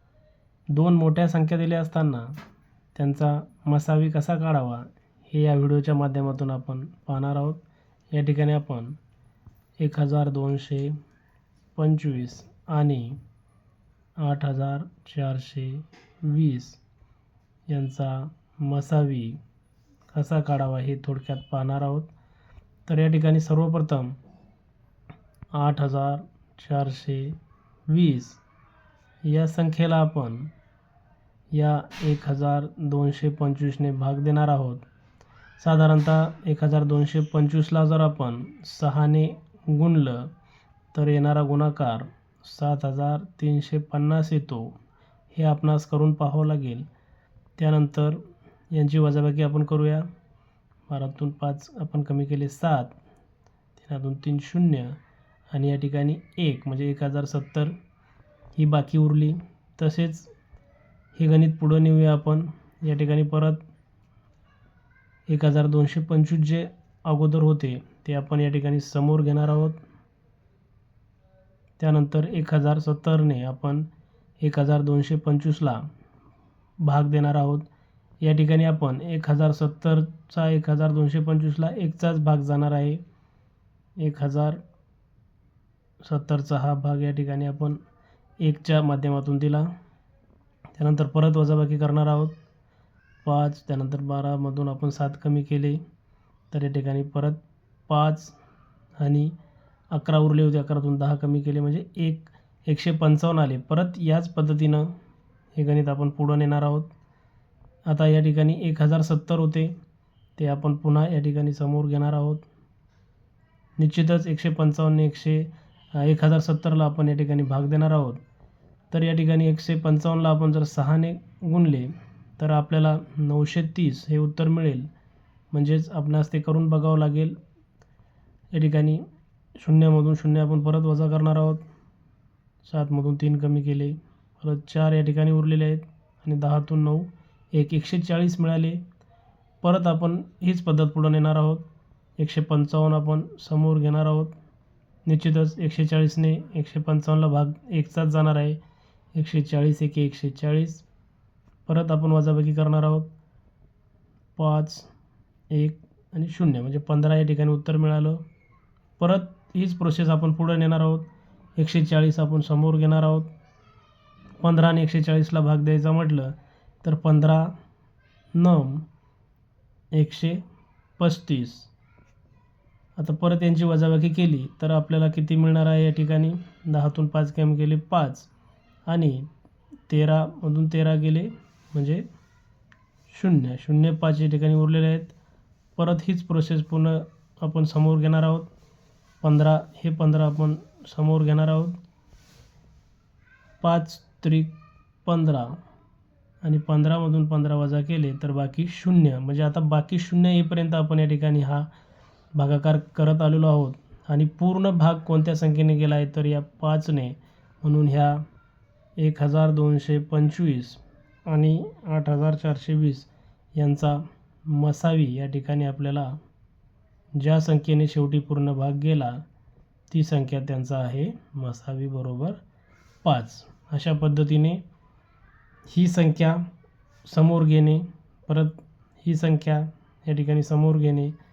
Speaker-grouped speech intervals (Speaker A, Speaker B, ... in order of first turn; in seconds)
Speaker A: 0.7-2.3, 2.9-7.6, 8.1-9.0, 9.8-11.0, 11.7-13.2, 14.2-16.8, 17.7-19.4, 20.1-22.1, 22.9-24.2, 25.5-27.4, 27.9-28.4, 29.3-30.5, 31.5-34.9, 35.6-40.3, 40.9-44.8, 45.3-46.9, 47.6-50.1, 50.9-53.0, 53.8-55.0, 55.5-57.7, 58.6-60.3, 61.2-63.6, 65.3-69.8, 71.8-73.9, 74.4-75.8, 76.8-77.7, 78.2-83.0, 84.0-84.6, 86.0-87.8, 88.4-89.7, 90.8-92.4, 93.2-95.8, 96.5-98.4, 99.0-99.3, 99.9-104.9, 105.5-106.9, 107.9-109.7, 110.4-112.4, 113.8-118.2, 118.9-124.9, 125.5-127.4, 128.5-129.0, 129.6-131.6, 132.6-138.8, 139.6-141.7, 142.2-144.3, 145.1-148.6, 149.1-150.8, 151.7-153.1, 154.4-154.9, 155.5-158.2, 159.0-163.3, 164.4-167.5, 168.3-168.8, 169.9-170.4, 171.0-171.7, 173.0-178.3, 178.9-179.3, 179.9-182.1, 183.1-185.2, 185.8-188.5, 189.2-191.8, 193.6-194.5, 195.1-195.6, 196.4-201.7, 202.3-208.2, 209.0-216.2, 217.2-219.2, 219.9-222.4, 223.0-224.6, 225.7-226.5, 227.1-231.1